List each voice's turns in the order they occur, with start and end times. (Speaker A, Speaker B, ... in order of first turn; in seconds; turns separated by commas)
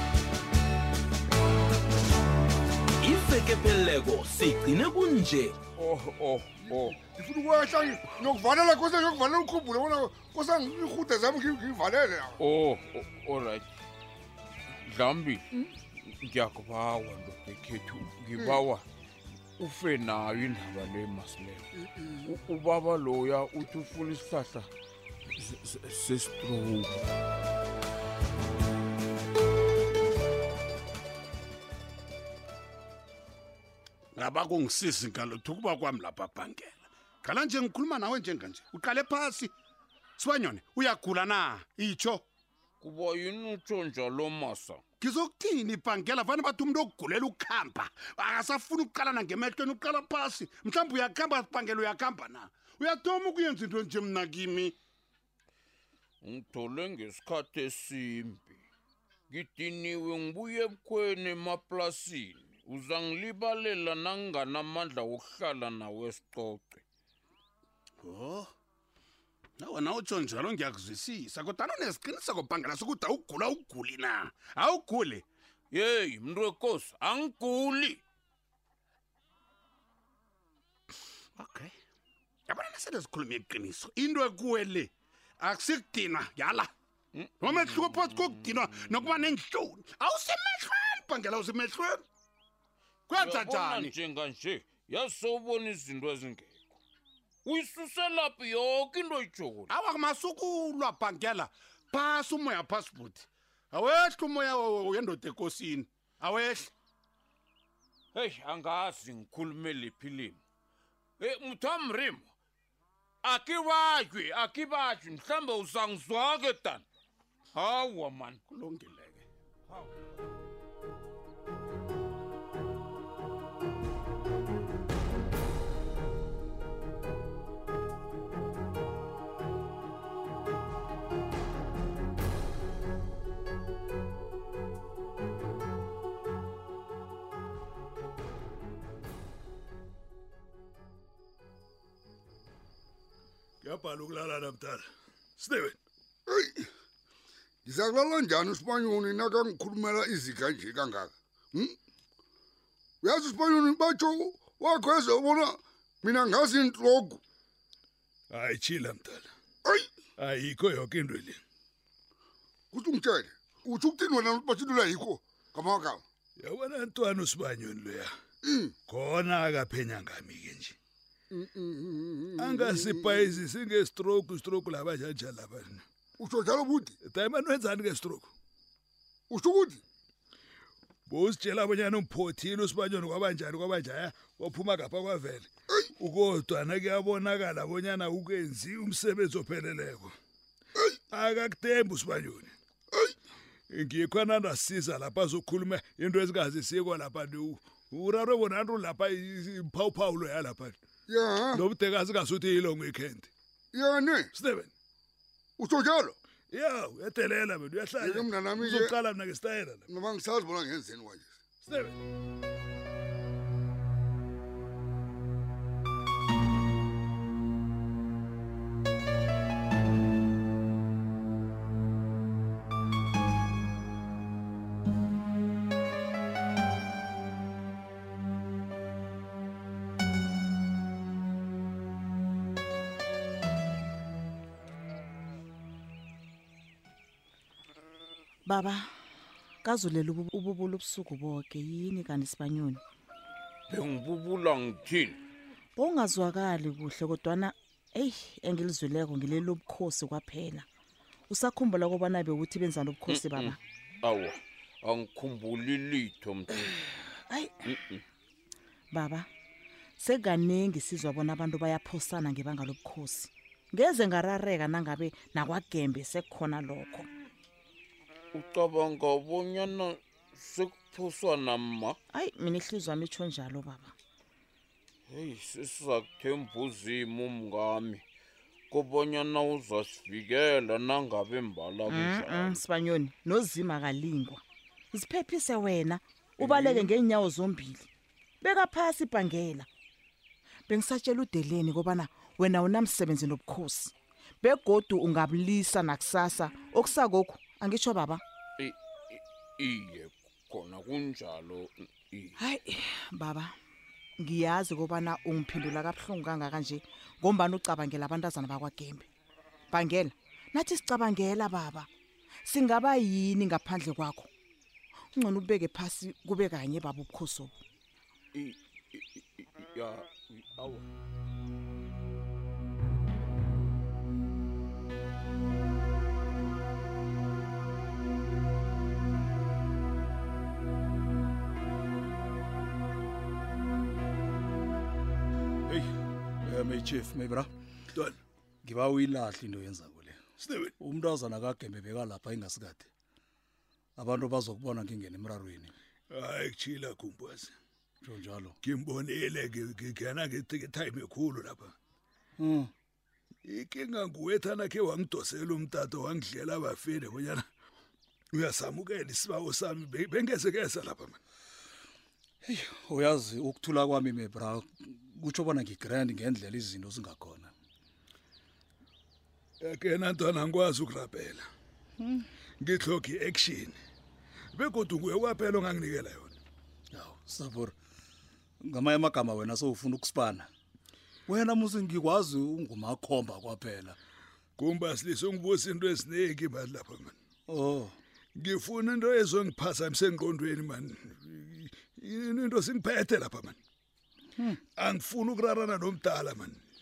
Speaker A: 3.0-5.6, Speaker B: 5.8-7.0, Speaker C: 6.7-12.3, Speaker B: 12.4-13.7, Speaker B: 14.8-18.9, Speaker B: 19.6-21.7, Speaker B: 22.2-24.7, Speaker B: 25.4-27.0, Speaker D: 34.1-39.5, Speaker D: 40.2-42.2, Speaker B: 42.8-44.8, Speaker D: 45.0-54.8, Speaker B: 56.2-58.6, Speaker B: 59.3-66.8, Speaker D: 68.1-68.4, Speaker D: 69.6-75.2, Speaker B: 75.7-78.0, Speaker D: 81.4-81.7, Speaker D: 82.5-86.7, Speaker B: 87.2-89.0, Speaker D: 87.4-92.0, Speaker D: 93.1-93.9, Speaker B: 93.1-96.8, Speaker B: 97.5-99.7, Speaker D: 99.7-106.7, Speaker B: 108.1-110.4, Speaker B: 111.2-112.3, Speaker B: 113.2-116.8, Speaker B: 117.5-118.5, Speaker D: 118.5-119.2, Speaker E: 143.6-144.8, Speaker E: 145.4-145.8, Speaker C: 146.3-146.7, Speaker C: 147.7-151.8, Speaker C: 153.0-157.2, Speaker E: 158.3-159.3, Speaker E: 160.2-161.4, Speaker C: 162.7-166.0, Speaker E: 166.4-168.1, Speaker C: 168.4-168.8, Speaker E: 168.9-170.8, Speaker C: 171.3-173.4, Speaker E: 172.4-175.8, Speaker C: 176.2-177.0, Speaker E: 177.0-178.3, Speaker C: 179.3-179.8, Speaker E: 181.1-190.1, Speaker E: 191.1-192.5, Speaker E: 193.7-200.8, Speaker C: 201.1-201.7, Speaker E: 201.5-203.3, Speaker C: 203.7-204.3, Speaker E: 204.3-204.7, Speaker C: 205.6-206.2, Speaker E: 206.5-209.9, Speaker C: 208.0-209.0, Speaker C: 209.9-211.3, Speaker E: 211.6-212.0, Speaker F: 238.5-238.8, Speaker F: 239.6-242.8, Speaker B: 243.7-245.2, Speaker F: 245.8-250.7, Speaker F: 251.3-253.6, Speaker B: 253.1-256.9, Speaker B: 257.7-258.0, Speaker F: 258.9-259.3, Speaker F: 260.0-267.1, Speaker B: 268.3-272.0, Speaker F: 272.1-273.9, Speaker B: 275.1-278.1, Speaker B: 278.7-282.6, Speaker F: 281.9-287.9, Speaker B: 286.4-286.9, Speaker F: 288.4-289.7, Speaker F: 290.7-298.2, Speaker B: 298.6-302.4, Speaker F: 302.4-303.5, Speaker F: 304.2-309.1, Speaker F: 309.7-311.9, Speaker F: 312.5-314.3, Speaker F: 315.1-317.6, Speaker B: 318.3-320.9, Speaker G: 335.7-337.5, Speaker G: 338.6-342.9, Speaker E: 340.4-340.7, Speaker G: 344.0-345.7, Speaker E: 346.1-347.5, Speaker G: 348.0-348.6, Speaker E: 348.6-351.7, Speaker G: 352.4-352.7, Speaker E: 353.5-357.4, Speaker E: 358.3-361.2, Speaker G: 362.4-367.5, Speaker E: 369.6-371.4, Speaker E: 372.6-373.8, Speaker E: 374.5-376.4, Speaker G: 376.9-377.8, Speaker G: 378.6-380.5, Speaker G: 381.3-384.0, Speaker E: 384.6-387.1, Speaker G: 387.5-388.0, Speaker E: 388.4-393.6, Speaker E: 394.8-396.6